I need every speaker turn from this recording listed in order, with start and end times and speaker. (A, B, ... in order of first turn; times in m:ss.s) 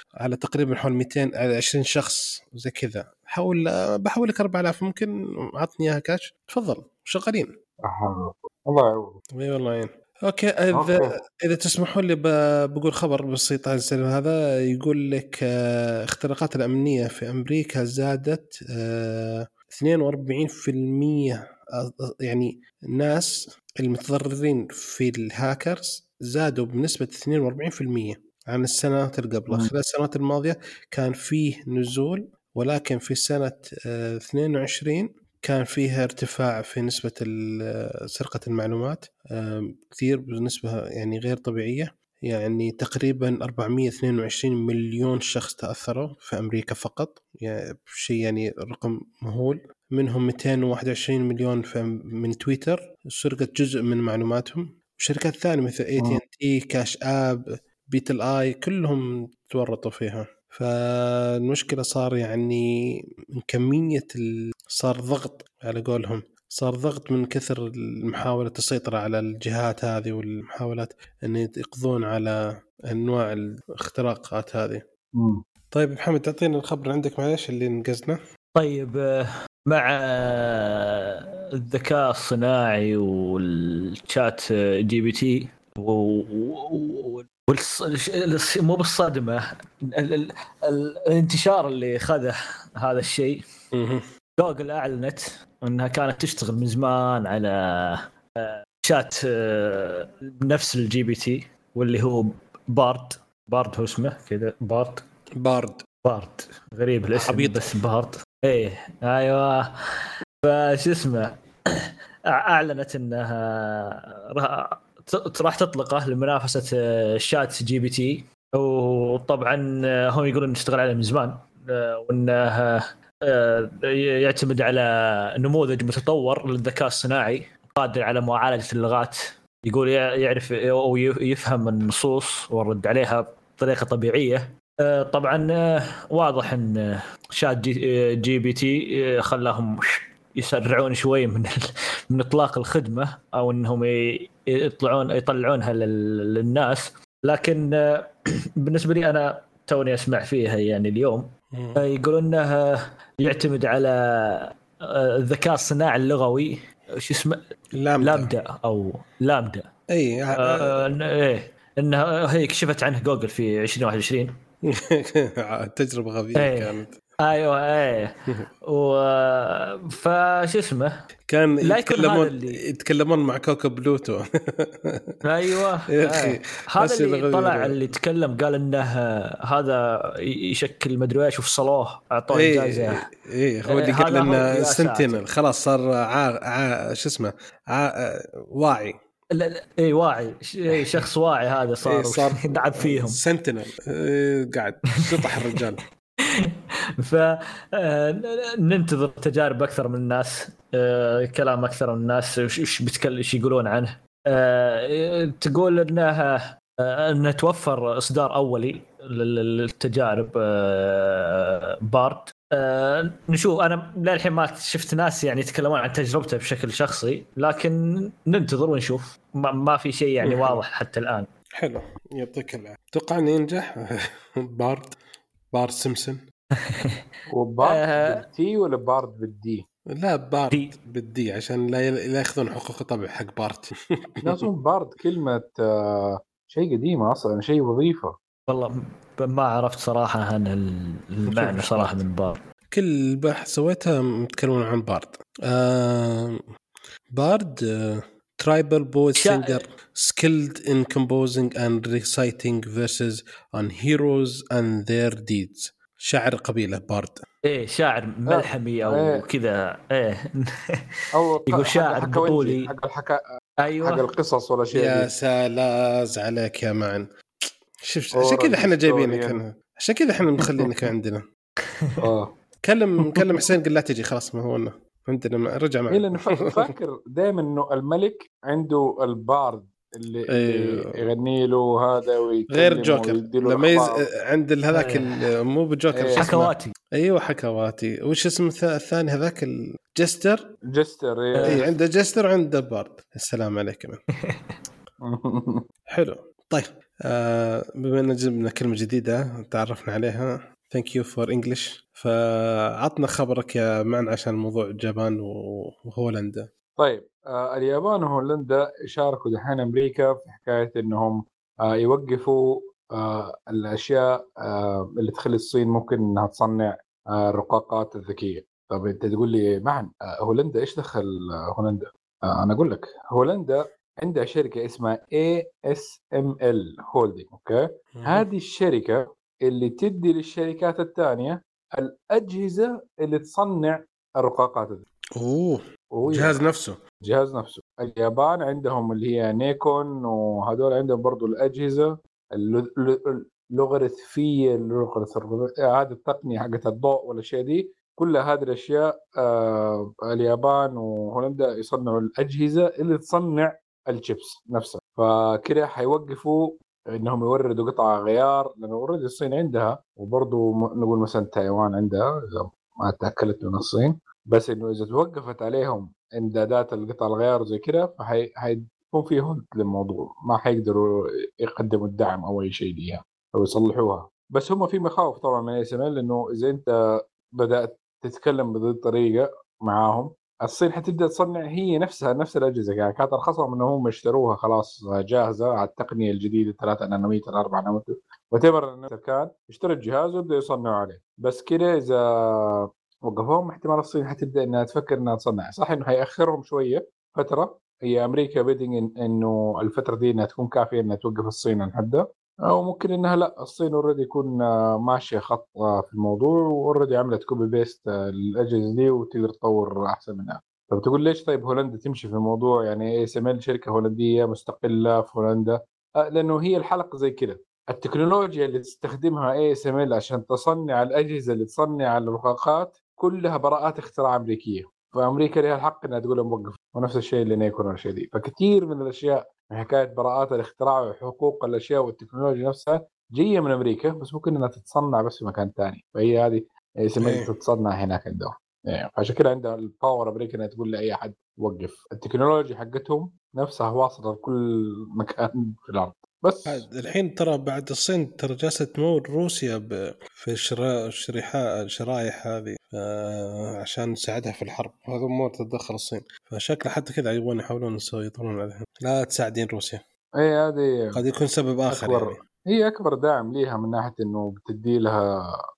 0:00.2-0:07.5 A
0:07.8-0:09.2 B
0:09.3-1:02.6 A
0:10.7-0:11.2 B
1:03.4-1:12.3 A
1:12.9-1:14.8 A
1:15.2-1:15.4 B
1:15.7-1:18.2 A
1:18.5-1:33.4 C
1:33.7-1:34.0 A
1:34.4-1:45.1 C
1:45.4-1:45.8 A
1:46.0-2:21.5 C
1:47.1-1:47.8 A
2:22.1-2:31.2 C
2:31.5-2:31.8 A
2:31.8-2:37.4 C
2:37.8-2:38.3 A
2:38.0-2:39.7 C
2:39.9-2:40.9 A
2:40.4-2:44.3 C
2:44.6-2:46.9 A
2:46.4-2:46.7 C
2:47.2-2:48.1 C
2:48.6-2:50.9 C
2:51.3-2:57.8 A
2:51.6-2:52.6 C
2:55.2-3:03.0 C
3:02.3-3:09.0 A
3:03.7-3:05.2 C
3:09.3-3:13.2 C
3:10.8-3:11.1 A
3:11.8-3:15.8 A
3:15.1-3:15.7 C
3:16.2-3:41.3 C
3:40.2-3:40.6 A
3:41.6-3:45.0 A
3:45.5-3:46.2 A
3:46.6-3:47.0 C
3:47.3-3:49.6 B
3:47.6-3:48.2 C
3:49.9-3:54.4 A
3:54.2-3:58.1 B
3:58.5-4:02.4 C
4:01.3-4:02.0 A
4:02.7-4:06.4 A
4:07.1-4:17.2 A
4:09.2-4:09.6 C
4:17.5-4:20.8 C
4:18.3-4:19.2 B
4:21.1-4:23.2 B
4:21.5-4:22.7 C
4:23.6-4:24.0 C
4:23.8-4:25.1 B
4:24.7-4:31.2 A
4:28.2-4:29.4 B
4:31.6-4:32.0 C
4:32.0-4:32.3 B
4:32.6-4:36.7 A
4:35.9-4:44.0 B
4:40.3-4:41.0 A
4:42.5-4:50.5 A
4:44.7-4:45.2 C
4:45.9-4:46.3 B
4:46.2-4:46.7 C
4:50.7-4:51.7 B
4:51.4-4:51.7 C
4:51.4-4:54.0 A
4:54.2-4:54.6 C
4:55.0-4:55.6 B
4:55.9-5:06.4 A
5:06.8-5:34.8 B
5:27.9-5:28.2 A
5:35.2-5:36.8 A
5:35.9-5:36.4 B
5:37.0-6:10.8 B
6:11.4-6:16.7 B
6:17.4-7:26.6 B
7:17.0-7:17.3 A
7:26.4-7:39.8 A
7:40.2-7:41.0 B
7:40.9-7:42.2 A
7:41.7-7:45.0 B